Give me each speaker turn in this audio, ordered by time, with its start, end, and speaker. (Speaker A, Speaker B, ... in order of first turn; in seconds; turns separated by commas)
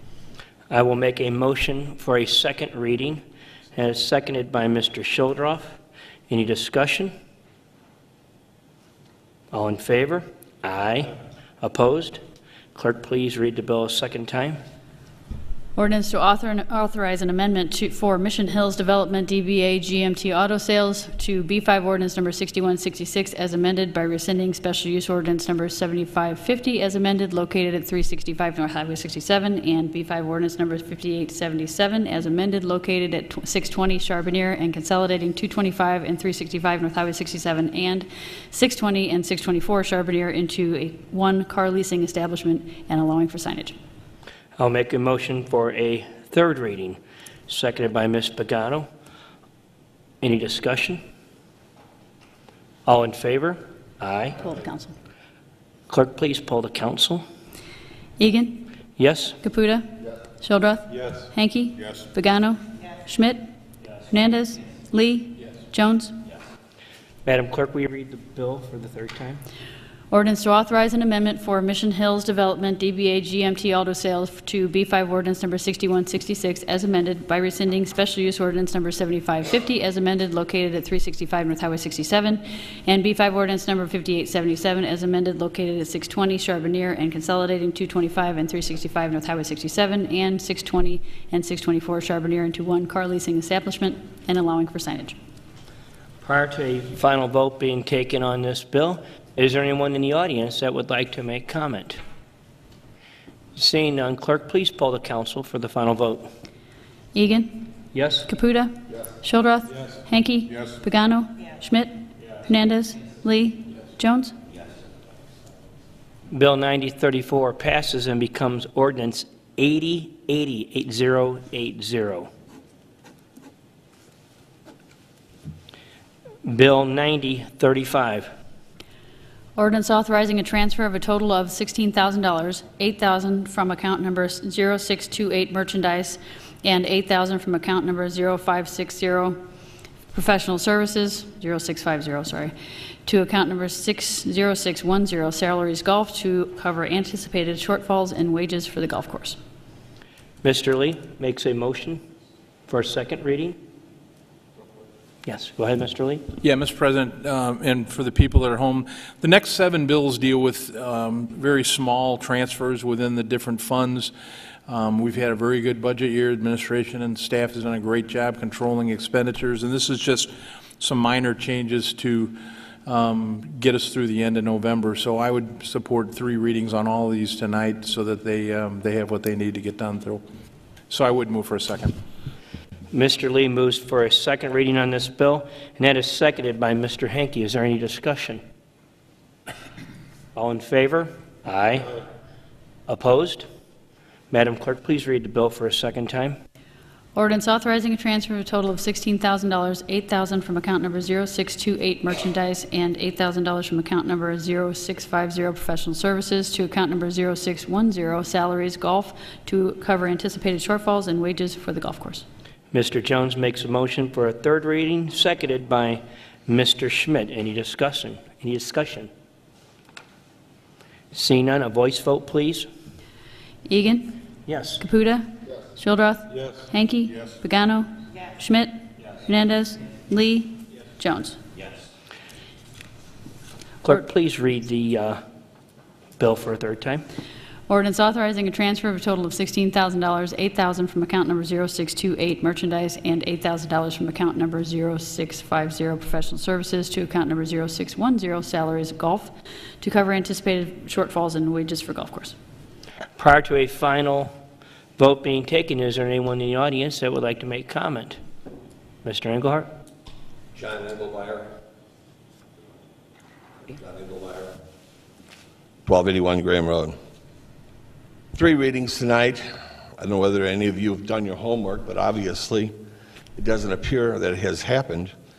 Speaker A: 0.7-3.2, Speaker A: 3.8-5.7, Speaker A: 6.3-7.1, Speaker A: 9.5-12.2, Speaker A: 12.8-14.6, Speaker B: 15.8-43.8, Speaker A: 44.6-48.9, Speaker A: 50.2-51.0, Speaker A: 52.9-54.4, Speaker B: 54.4-54.9, Speaker A: 55.9-57.2, Speaker B: 58.2-58.7, Speaker A: 59.0-59.4, Speaker B: 59.4-63.4, Speaker B: 64.1-66.2, Speaker A: 67.2-69.4, Speaker B: 70.1-95.2, Speaker A: 96.2-102.0, Speaker A: 103.6-106.3, Speaker B: 107.1-107.6, Speaker A: 107.9-108.3, Speaker B: 108.3-114.3, Speaker A: 116.3-122.3, Speaker A: 126.4-128.3, Speaker B: 129.6-139.4, Speaker B: 140.1-142.5, Speaker B: 143.1-149.4, Speaker A: 150.4-152.0, Speaker A: 152.7-153.6, Speaker A: 155.2-156.3, Speaker C: 156.4-164.1, Speaker C: 164.7-180.2, Speaker C: 180.9-181.9, Speaker A: 182.9-188.4, Speaker A: 190.3-192.0, Speaker A: 192.9-193.5, Speaker A: 194.3-196.4, Speaker B: 197.2-212.2, Speaker A: 212.7-219.1, Speaker A: 221.1-222.7, Speaker B: 223.7-224.2, Speaker A: 224.5-224.8, Speaker B: 224.8-231.4, Speaker A: 233.8-235.2, Speaker A: 236.2-237.0, Speaker B: 237.7-252.3, Speaker A: 253.2-254.3, Speaker A: 255.0-258.2, Speaker A: 259.0-259.7, Speaker D: 260.6-261.5, Speaker D: 263.8-264.6, Speaker D: 265.9-267.0, Speaker D: 268.4-272.7, Speaker D: 273.4-275.1